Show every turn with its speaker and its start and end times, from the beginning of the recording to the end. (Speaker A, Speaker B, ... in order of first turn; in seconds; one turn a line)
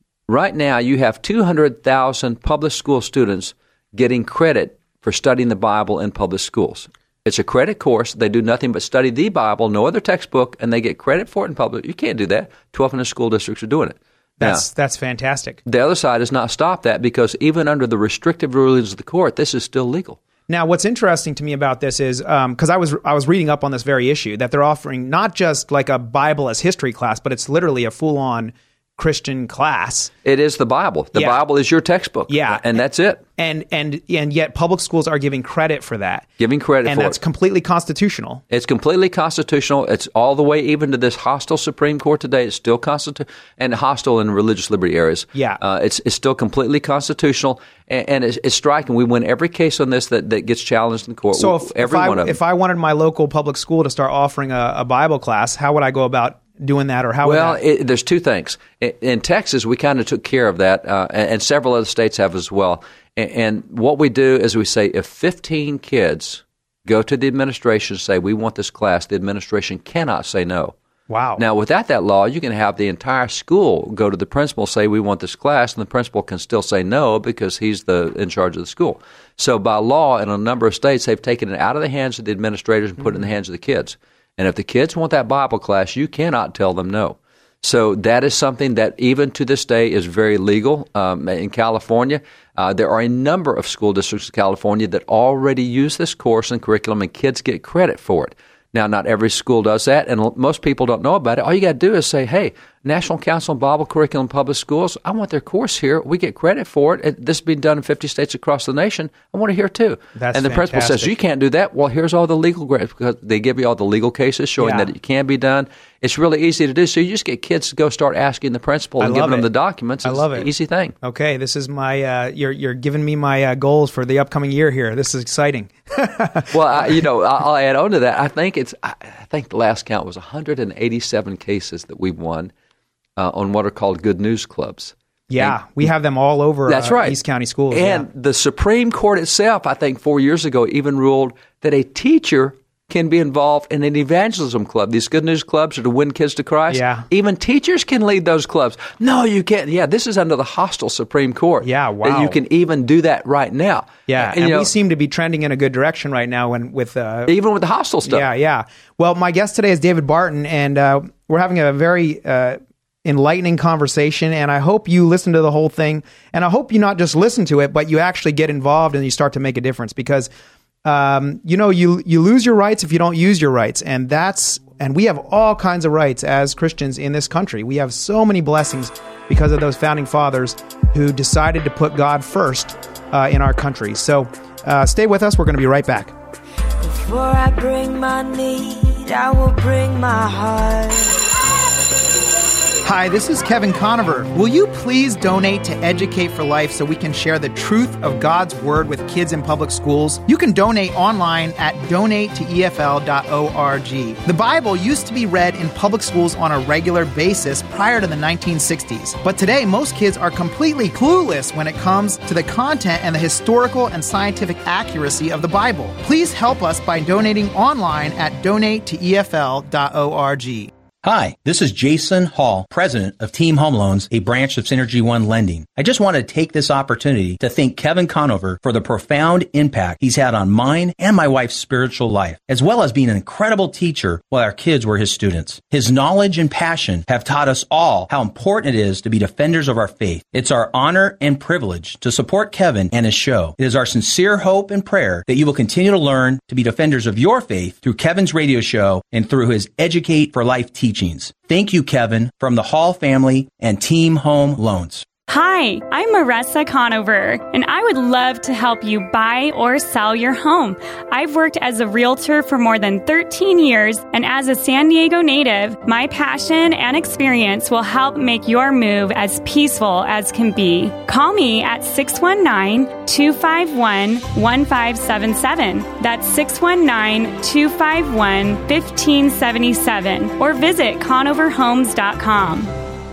Speaker A: 0.3-14.6
Speaker B: 14.4-15.6
Speaker A: 15.7-20.2
Speaker B: 20.5-30.1
Speaker A: 30.2-33.2
Speaker B: 32.3-32.8
Speaker B: 33.4-36.3
Speaker A: 36.4-37.1
Speaker B: 36.9-38.4
Speaker A: 38.5-52.4
Speaker B: 45.3-45.6
Speaker B: 51.3-57.6
Speaker A: 57.2-70.7
Speaker B: 71.1-71.4
Speaker A: 71.4-120.9
Speaker B: 110.2-111.1
Speaker B: 114.6-114.9
Speaker B: 119.0-119.5
Speaker B: 120.0-120.5
Speaker B: 121.0-126.9
Speaker A: 126.5-132.5
Speaker A: 133.2-135.8
Speaker B: 135.3-138.0
Speaker A: 136.7-137.2
Speaker A: 137.7-154.7
Speaker B: 146.7-147.1
Speaker B: 151.6-152.4
Speaker B: 154.1-157.3
Speaker A: 157.3-158.3
Speaker B: 158.0-170.3
Speaker B: 170.8-186.1
Speaker C: 186.8-191.3
Speaker B: 192.8-220.7
Speaker D: 221.0-255.0
Speaker E: 255.3-282.7